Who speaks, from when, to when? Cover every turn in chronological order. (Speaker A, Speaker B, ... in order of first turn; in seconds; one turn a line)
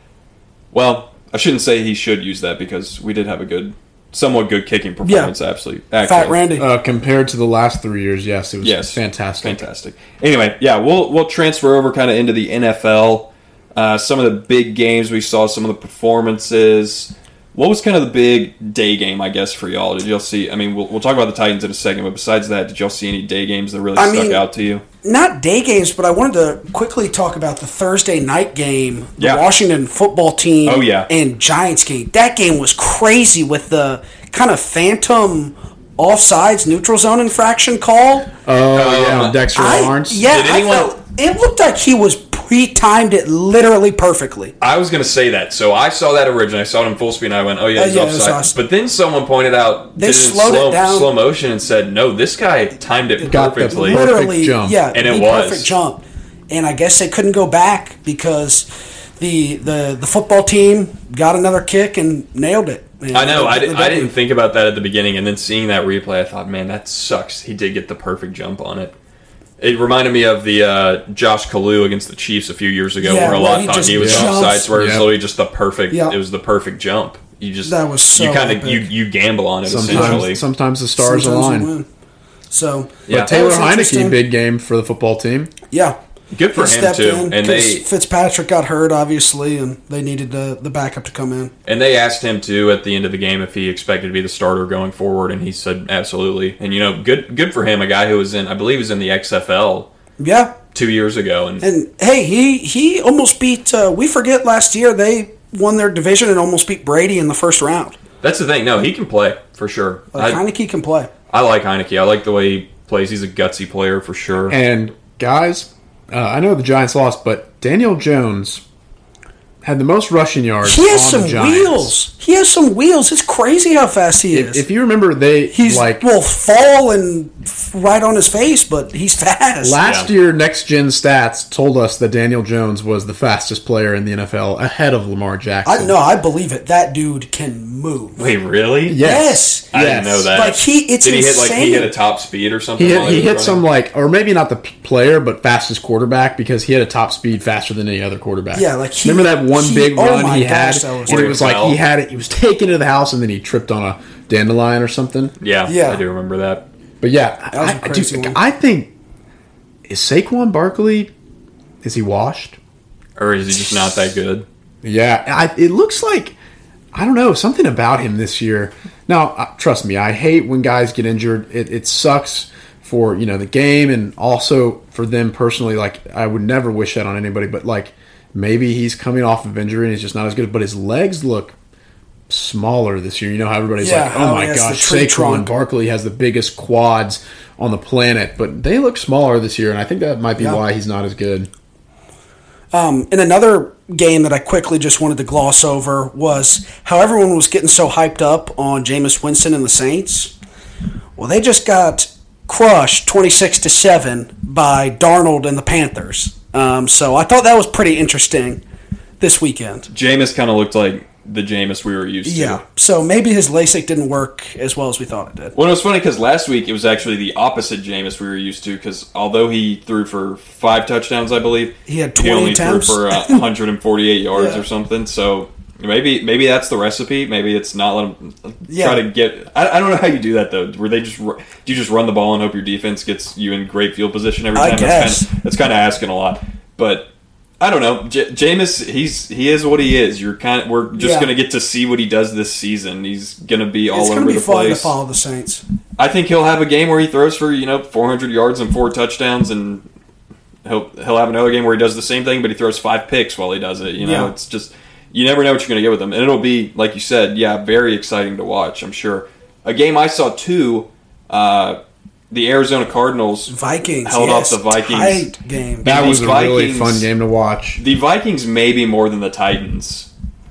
Speaker A: 0.7-6.4
Speaker B: 5.0-5.3
Speaker B: 6.0-6.6
Speaker C: 6.6-9.6
Speaker A: 8.6-24.8
Speaker B: 24.0-24.4
Speaker B: 25.0-38.3
Speaker A: 29.2-29.4
Speaker A: 30.6-31.1
Speaker C: 38.4-40.3
Speaker A: 38.7-39.4
Speaker B: 39.5-44.5
Speaker A: 40.3-40.9
Speaker A: 44.6-54.1
Speaker B: 47.8-48.5
Speaker B: 50.0-51.1
Speaker C: 53.2-54.8
Speaker B: 53.7-58.7
Speaker A: 54.9-55.7
Speaker B: 59.2-64.1
Speaker A: 63.1-68.9
Speaker A: 69.6-80.4
Speaker B: 73.0-74.7
Speaker C: 74.0-75.1
Speaker B: 75.9-76.2
Speaker B: 77.6-78.8
Speaker C: 79.7-81.7
Speaker B: 79.8-80.2
Speaker B: 81.0-81.8
Speaker B: 82.5-84.2
Speaker A: 83.1-83.3
Speaker C: 83.1-85.5
Speaker B: 85.7-86.0
Speaker A: 86.3-87.8
Speaker B: 86.5-91.5
Speaker A: 91.7-99.9
Speaker B: 100.2-100.6
Speaker A: 100.7-101.6
Speaker B: 101.6-108.0
Speaker A: 108.2-110.4
Speaker B: 110.1-111.1
Speaker A: 111.3-114.5
Speaker C: 114.5-118.6
Speaker C: 119.6-121.9
Speaker B: 120.6-124.6
Speaker C: 124.3-126.0
Speaker B: 125.5-129.8
Speaker C: 129.6-136.0
Speaker A: 129.8-130.1
Speaker B: 135.6-138.3
Speaker A: 138.2-139.0
Speaker C: 138.9-140.3
Speaker B: 139.0-139.7
Speaker A: 139.7-143.6
Speaker B: 140.3-141.9
Speaker C: 142.8-155.3
Speaker B: 148.5-151.4
Speaker A: 151.1-151.8
Speaker A: 155.4-156.6
Speaker B: 155.7-156.0
Speaker C: 157.0-158.9
Speaker B: 157.5-158.4
Speaker C: 159.9-161.1
Speaker C: 161.8-162.6
Speaker A: 163.2-164.4
Speaker C: 164.8-166.3
Speaker C: 166.9-181.5
Speaker C: 182.3-191.5
Speaker B: 183.8-185.5
Speaker B: 192.7-200.3
Speaker B: 201.2-208.6
Speaker B: 209.2-209.9
Speaker A: 209.9-212.6
Speaker B: 212.2-215.5
Speaker A: 215.5-237.1
Speaker B: 221.8-223.4
Speaker B: 224.3-224.6
Speaker B: 228.7-229.0
Speaker B: 234.5-235.3
Speaker A: 237.6-244.9
Speaker B: 241.0-241.3
Speaker B: 243.9-245.6
Speaker A: 246.0-249.8
Speaker A: 250.6-261.8
Speaker B: 254.0-254.3
Speaker A: 262.3-263.5
Speaker B: 263.5-265.9
Speaker A: 264.0-265.3
Speaker A: 265.8-267.1
Speaker C: 265.8-267.8
Speaker A: 267.8-270.1